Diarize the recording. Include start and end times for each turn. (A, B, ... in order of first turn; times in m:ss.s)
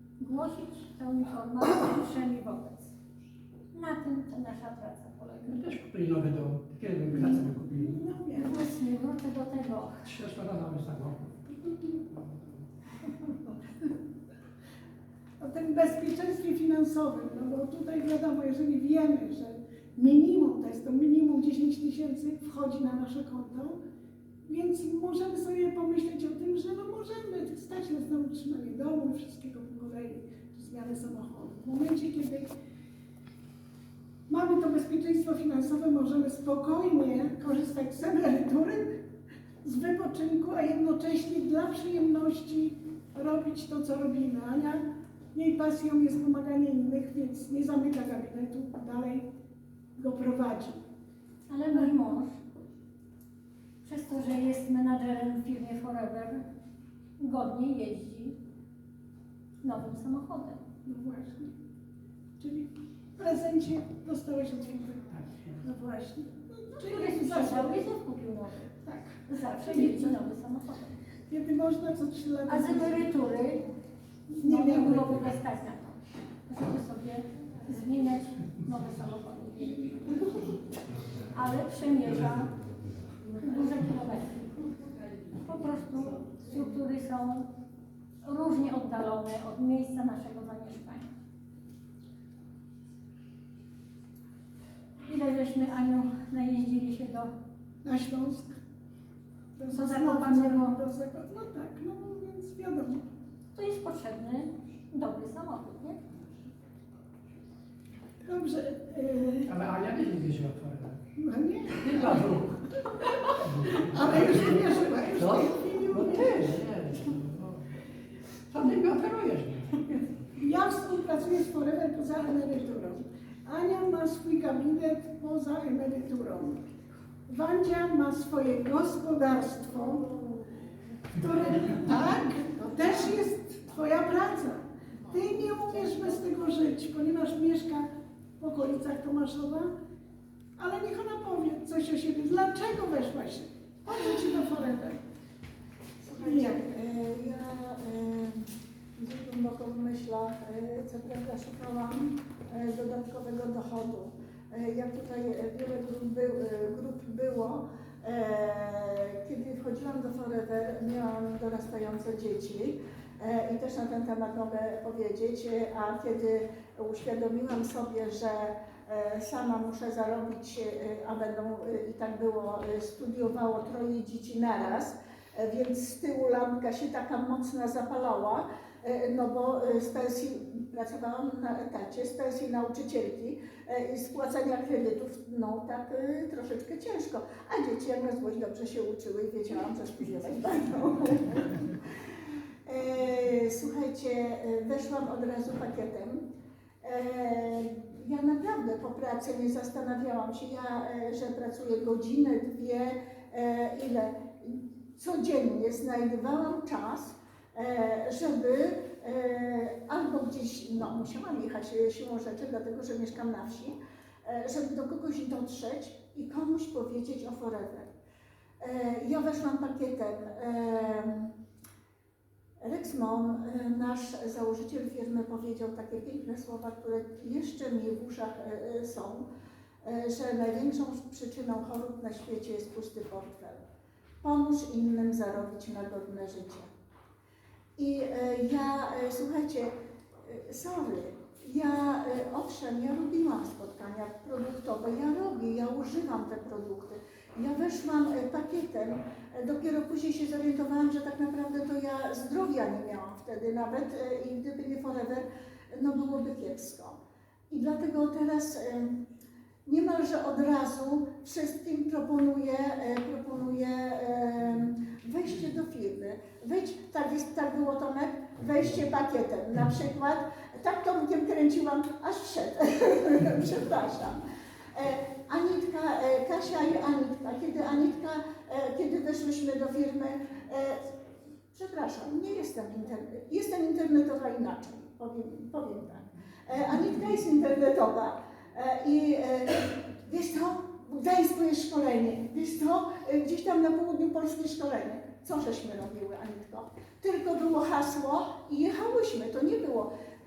0:00.2-0:03.0 A
0:03.7-0:05.6 A
0:05.4-0:08.0 B
0:07.1-0:08.6 C
0:08.4-0:10.0 A
0:10.0-0:11.5 B
0:15.4-0:23.8 C
0:24.4-0:32.5 C
0:34.3-0:39.0 C
0:39.6-0:44.8 C
0:45.3-0:49.2 C
0:50.0-0:50.8 C
0:51.5-0:52.4 A
0:53.8-0:56.4 A
0:57.2-0:58.4 A
0:59.6-1:00.7 A
1:00.8-1:01.5 C
1:02.4-1:05.1 C
1:05.2-1:05.6 B
1:05.6-1:07.8 C
1:06.8-1:08.7 A
1:08.8-1:10.1 C
1:09.2-1:11.0 A
1:11.3-1:13.1 C
1:12.5-1:13.6 A
1:14.3-1:15.2 C
1:14.4-1:20.1 A
1:21.2-1:22.6 A
1:23.4-1:24.4 A
1:25.4-1:27.4 A
1:28.2-1:31.1 A
1:35.0-1:37.3 A
1:37.8-1:38.6 C
1:39.6-1:43.0 C
1:39.7-1:40.8 A
1:43.5-1:46.0 A
1:48.2-1:49.5 C
1:49.5-1:51.0 B
1:51.1-1:52.2 C
1:51.7-1:52.7 B
1:53.3-1:56.4 C
1:53.4-1:57.8 B
1:58.5-2:00.1 B
2:00.4-2:06.6 C
2:07.3-2:10.2 C
2:11.1-2:17.8 C
2:18.4-2:19.7 C
2:20.6-2:25.0 C
2:26.0-3:11.8 D
2:26.2-2:26.6 C
3:12.6-3:16.2 D
3:16.8-3:37.9 D
3:38.6-3:41.3 D
3:42.6-3:49.2 D
3:49.8-3:53.6 D
3:54.2-3:56.7 D
3:57.8-4:17.0 D
4:17.5-4:19.0 D
4:19.6-4:34.2 D
4:34.7-4:40.9 D
4:41.5-4:59.9 D